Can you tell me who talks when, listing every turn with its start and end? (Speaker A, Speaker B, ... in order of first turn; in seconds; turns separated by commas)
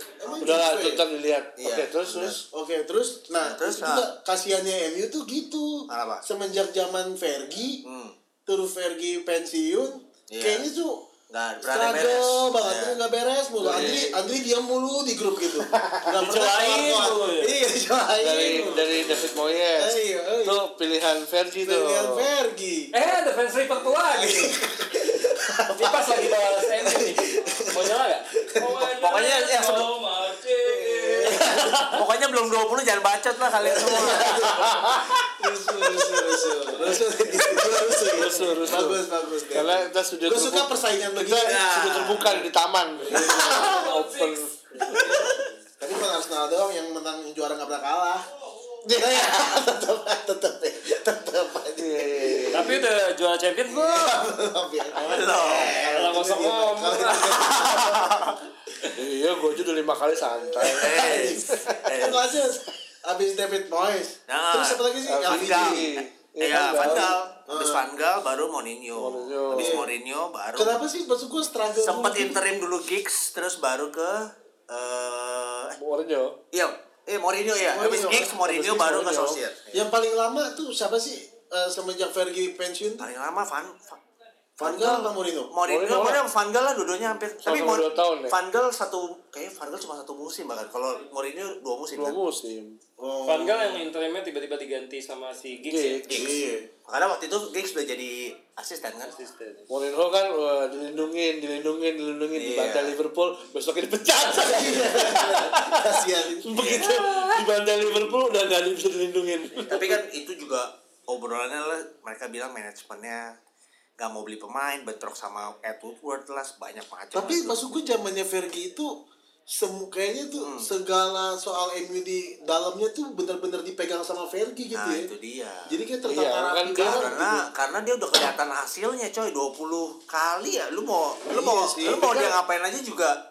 Speaker A: 0.2-1.0, Speaker B: 0.4-2.4, Speaker C: 1.6-2.4, Speaker A: 2.5-7.8, Speaker C: 3.4-4.1, Speaker C: 5.9-6.2, Speaker C: 7.8-8.1, Speaker A: 8.4-11.0, Speaker C: 10.3-10.7, Speaker C: 11.3-13.0, Speaker A: 11.6-20.6, Speaker B: 13.6-14.2, Speaker C: 13.6-14.0, Speaker B: 15.7-16.0, Speaker D: 16.1-17.6, Speaker B: 18.2-22.3, Speaker D: 18.4-18.8, Speaker A: 21.6-22.9, Speaker D: 22.9-24.6, Speaker A: 24.1-28.8, Speaker D: 25.6-32.0, Speaker C: 28.9-29.9, Speaker A: 30.6-31.8, Speaker C: 31.9-34.9, Speaker A: 33.6-41.7, Speaker B: 34.5-35.0, Speaker D: 36.8-37.1, Speaker B: 38.1-45.2, Speaker C: 41.4-42.5, Speaker D: 43.0-45.4, Speaker A: 43.1-43.8, Speaker C: 44.9-45.4, Speaker A: 45.8-48.3, Speaker A: 48.8-52.9, Speaker B: 51.7-52.8, Speaker D: 52.5-54.2, Speaker A: 53.7-58.4, Speaker C: 55.0-55.8, Speaker D: 55.0-57.5, Speaker C: 57.3-58.4, Speaker B: 58.9-61.8, Speaker A: 60.5-65.9, Speaker C: 60.6-62.2, Speaker C: 64.3-70.8, Speaker B: 65.0-67.1, Speaker A: 66.7-67.8, Speaker B: 68.9-69.8, Speaker A: 69.5-69.9, Speaker A: 70.5-72.4, Speaker C: 71.8-75.8, Speaker B: 75.8-76.4, Speaker C: 76.5-79.8, Speaker A: 77.7-78.3, Speaker B: 77.9-79.4, Speaker A: 79.7-83.1, Speaker C: 83.0-84.0, Speaker A: 84.6-85.5, Speaker C: 84.6-92.2, Speaker B: 85.6-86.2, Speaker B: 87.4-88.4, Speaker B: 91.9-92.8, Speaker A: 93.0-93.8, Speaker D: 93.2-96.0, Speaker B: 95.7-96.2, Speaker C: 96.1-99.1, Speaker A: 96.1-96.7, Speaker D: 99.1-99.7, Speaker B: 99.7-110.0, Speaker C: 102.3-103.0, Speaker A: 104.3-106.9, Speaker C: 106.5-107.4, Speaker C: 109.7-113.3, Speaker C: 114.0-117.6, Speaker A: 117.1-125.1, Speaker C: 120.4-120.7, Speaker C: 124.7-125.7, Speaker A: 125.7-127.4, Speaker B: 126.1-127.3, Speaker C: 126.7-133.2, Speaker A: 131.3-132.3